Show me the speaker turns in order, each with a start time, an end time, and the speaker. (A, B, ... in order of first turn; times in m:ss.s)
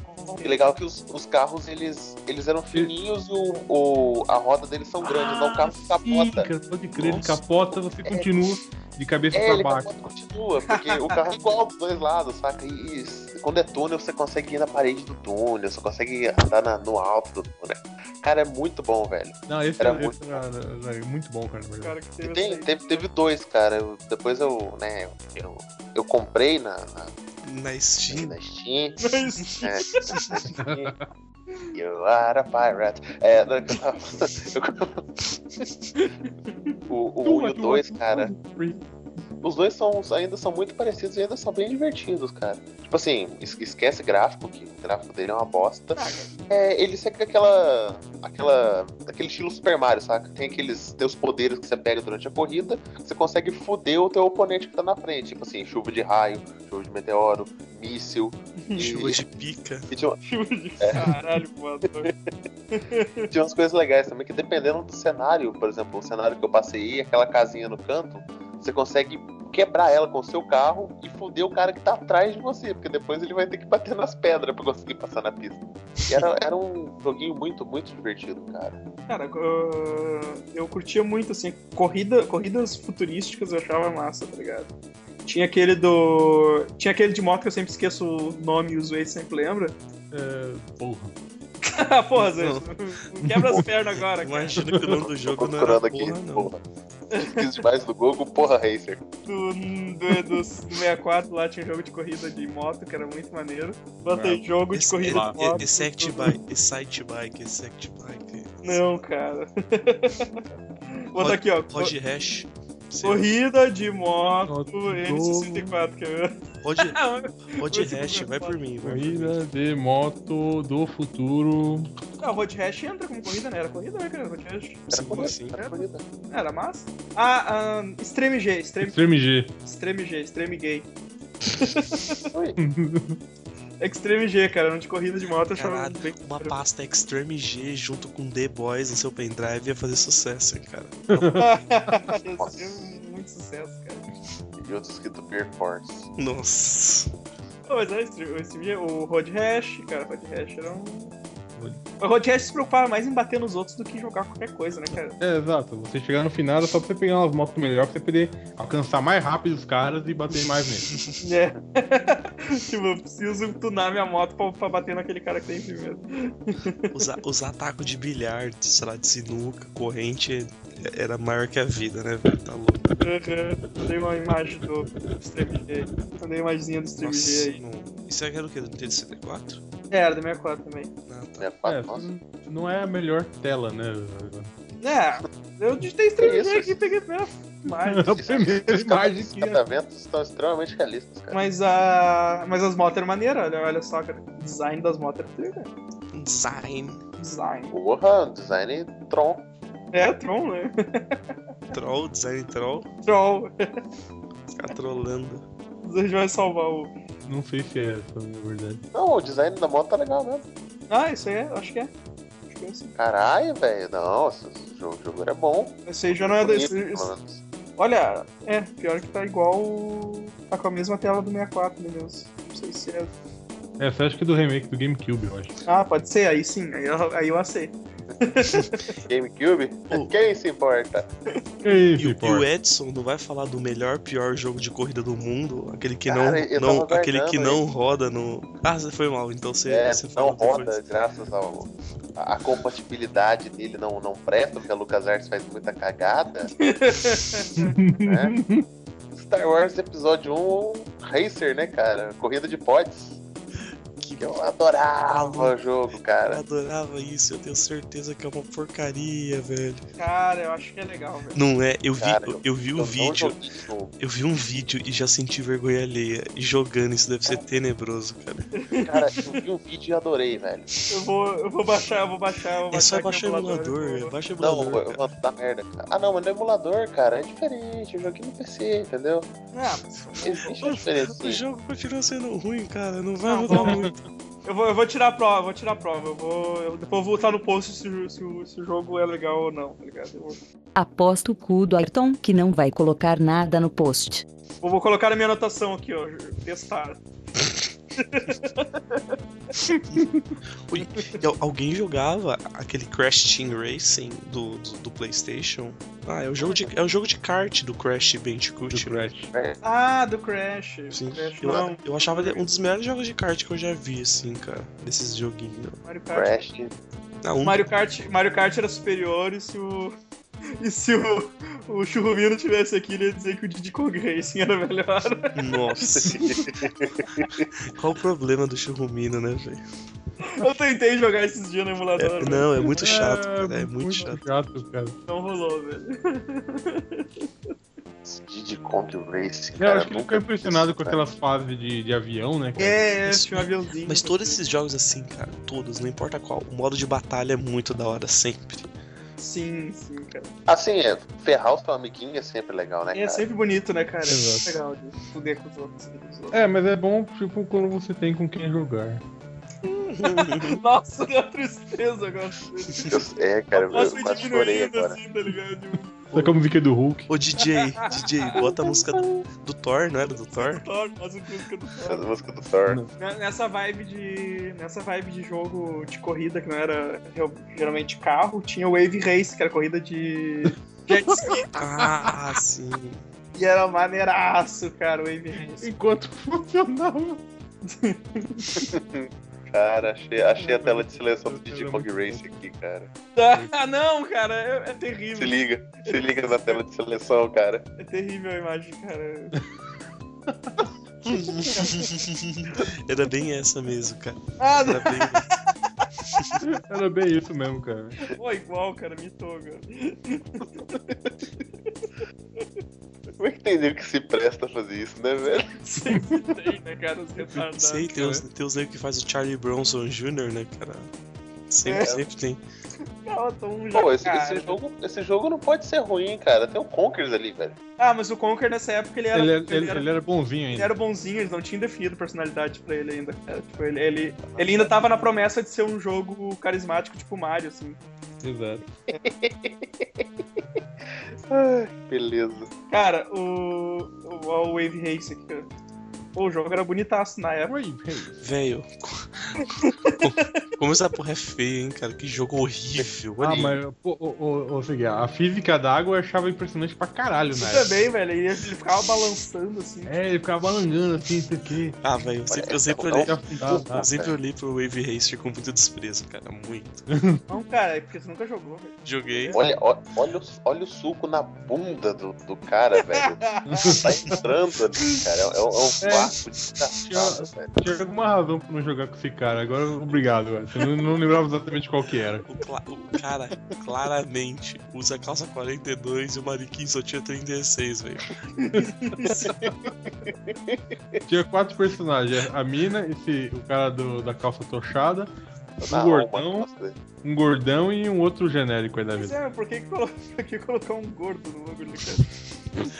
0:00.2-0:00.6 A
0:00.4-0:06.5 B
0:05.1-0:09.9 C
0:07.0-0:07.4 D
0:08.0-0:08.3 B
0:09.3-0:20.4 B
0:10.7-0:11.1 A
0:19.5-0:22.0 C
0:21.8-0:22.7 A
0:22.2-0:27.1 B
0:27.4-0:28.4 D
0:28.1-0:29.0 B
0:29.0-0:30.0 A
0:29.6-0:30.9 B
0:30.1-0:30.4 D
0:30.6-0:31.0 C
0:31.7-0:35.0 B
0:36.0-0:36.8 A
0:36.9-0:38.3 B
0:37.2-0:38.8 C
0:39.4-0:59.2 B
0:46.0-0:46.4 A
0:58.8-0:59.9 D
0:59.9-1:00.2 B
1:00.2-1:02.1 A
1:00.8-1:01.1 B
1:02.7-1:03.3 A
1:03.3-1:18.8 B
1:19.1-1:24.7 A
1:25.3-1:29.8 A
1:30.1-1:31.1 C
1:31.6-1:34.6 A
1:32.2-1:32.6 D
1:33.5-1:36.5 D
1:34.6-1:34.9 C
1:35.1-1:39.0 B
1:37.1-1:37.5 A
1:39.3-1:45.7 A
1:44.0-1:44.4 C
1:44.7-1:48.6 D
1:45.1-1:46.4 C
1:48.6-1:50.3 A
1:51.1-1:51.9 A
1:51.2-1:53.3 D
1:53.0-1:58.6 A
1:54.4-1:55.7 C
1:56.6-1:57.0 D
1:57.5-1:59.4 D
1:58.8-2:01.9 C
2:02.2-2:09.0 A
2:04.9-2:05.6 D
2:04.9-2:06.0 B
2:08.8-2:09.5 C
2:09.6-2:10.9 A
2:11.5-2:12.3 A
2:12.3-2:12.6 B
2:12.6-2:13.2 C
2:13.8-2:16.6 A
2:15.5-2:21.3 D
2:21.1-2:22.1 C
2:21.3-2:24.0 A
2:22.4-2:22.9 B
2:24.6-2:26.1 B
2:26.2-2:27.1 D
2:27.7-2:31.2 A
2:31.6-2:31.8 C
2:32.0-2:35.2 A
2:35.2-2:40.9 C
2:40.9-2:41.1 D
2:41.2-2:46.9 A
2:46.9-2:53.0 D
2:53.0-2:57.6 A
2:57.0-2:59.6 D
2:59.9-3:00.9 A
3:01.1-3:01.5 D
3:01.4-3:02.1 B
3:01.6-3:04.5 C
3:04.8-3:08.4 A
3:06.2-3:06.8 B
3:07.9-3:09.6 C
3:08.1-3:11.4 B
3:11.3-3:15.7 A
3:16.1-3:17.0 D
3:17.2-3:17.7 A
3:17.7-3:19.4 B
3:19.9-3:21.2 A
3:21.7-3:22.9 D
3:23.0-3:23.8 A
3:24.5-3:25.4 D
3:25.8-3:26.9 A
3:27.2-3:28.8 C
3:28.9-3:30.4 B
3:30.9-3:31.9 A
3:32.5-3:32.9 A
3:33.0-3:37.4 B
3:35.9-3:37.1 A
3:37.8-3:43.1 A
3:43.8-3:45.6 C
3:45.6-3:48.9 A
3:49.0-3:51.0 B
3:51.6-3:52.5 C
3:52.0-4:00.8 D
3:56.1-3:57.6 B
3:59.6-4:06.5 B
4:06.6-4:07.7 A
4:07.6-4:08.6 C
4:08.0-4:08.3 B
4:09.1-4:13.2 B
4:14.0-4:14.5 D
4:14.2-4:16.4 B
4:15.0-4:15.5 D
4:16.2-4:19.8 D
4:20.0-4:21.4 A
4:21.3-4:23.4 D
4:22.0-4:23.9 B
4:24.0-4:28.5 D
4:28.7-4:29.4 A
4:28.8-4:30.7 B
4:30.9-4:34.1 A
4:32.7-4:35.0 D
4:34.4-4:39.3 B
4:39.5-4:40.6 A
4:40.2-4:41.4 B
4:40.6-4:43.9 D
4:43.2-4:43.9 A
4:43.5-4:43.9 C
4:44.4-4:50.4 A
4:50.7-4:54.2 E
4:54.6-4:57.0 A
4:58.0-4:59.2 A
5:00.0-5:00.2 C
5:00.7-5:09.1 D
5:08.7-5:09.3 C
5:09.6-5:12.4 A
5:10.9-5:15.8 D
5:15.8-5:16.4 A
5:16.1-5:16.7 B
5:17.2-5:17.6 D
5:17.4-5:20.0 A
5:20.6-5:26.5 A
5:25.4-5:26.3 D
5:26.0-5:27.5 B
5:27.7-5:29.6 D
5:30.2-5:33.1 A
5:32.0-5:34.2 D
5:32.8-5:35.0 C
5:35.1-5:37.3 A
5:38.0-5:41.0 B
5:39.6-5:42.8 C
5:42.6-5:44.4 A
5:43.0-5:48.7 D
5:49.2-5:50.3 A
5:50.5-5:53.2 B
5:52.9-5:56.3 A
5:54.1-5:54.5 C
5:56.3-5:59.0 C
5:59.8-6:00.6 D
6:00.0-6:03.0 A
6:02.9-6:05.0 B
6:03.5-6:06.1 A
6:06.1-6:07.1 C
6:07.1-6:10.6 D
6:07.8-6:08.5 A
6:10.3-6:12.1 A
6:11.8-6:12.8 B
6:12.7-6:12.9 C
6:13.0-6:21.5 A
6:20.9-6:22.1 C
6:21.6-6:23.0 D
6:23.4-6:25.7 A
6:25.6-6:27.2 C
6:27.6-6:28.7 A
6:28.7-6:32.9 B
6:30.4-6:32.2 C
6:33.2-6:36.6 A
6:35.2-6:37.6 B
6:37.8-6:39.3 A
6:40.3-6:40.6 C
6:41.0-6:45.3 D
6:41.5-6:41.9 A
6:44.4-6:45.4 A
6:46.4-6:48.0 C
6:48.0-6:50.8 A
6:52.0-6:52.4 A
6:53.2-6:55.5 B
6:55.6-6:58.0 A
6:57.6-7:00.9 D
6:57.9-6:58.2 C
7:01.5-7:02.4 D
7:01.6-7:02.0 A
7:01.7-7:02.0 B
7:03.0-7:04.6 A
7:03.7-7:07.6 B
7:07.8-7:09.9 A
7:09.1-7:10.7 C
7:10.6-7:17.8 A
7:14.3-7:14.8 B
7:18.2-7:18.6 C
7:18.9-7:20.4 B
7:21.3-7:22.5 B
7:22.7-7:25.5 A
7:26.1-7:27.5 A
7:27.4-7:28.2 C
7:28.2-7:33.6 D
7:29.6-7:30.3 A
7:33.2-7:37.8 C
7:37.4-7:40.0 A
7:39.9-7:41.8 C
7:41.8-7:46.9 D
7:42.3-7:44.2 B
7:43.0-7:43.8 C
7:46.9-7:47.2 C
7:47.3-7:49.4 A
7:48.8-7:49.4 D
7:49.3-7:57.5 B
7:52.9-7:54.1 A
7:53.5-7:53.8 C
7:55.8-7:56.1 C
7:56.8-8:02.3 C
8:02.3-8:08.2 D
8:08.4-8:09.2 A
8:09.3-8:09.6 C
8:09.4-8:11.0 B
8:11.1-8:15.1 C
8:15.6-8:16.8 B
8:15.7-8:16.5 C
8:17.0-8:19.1 C
8:18.9-8:22.1 A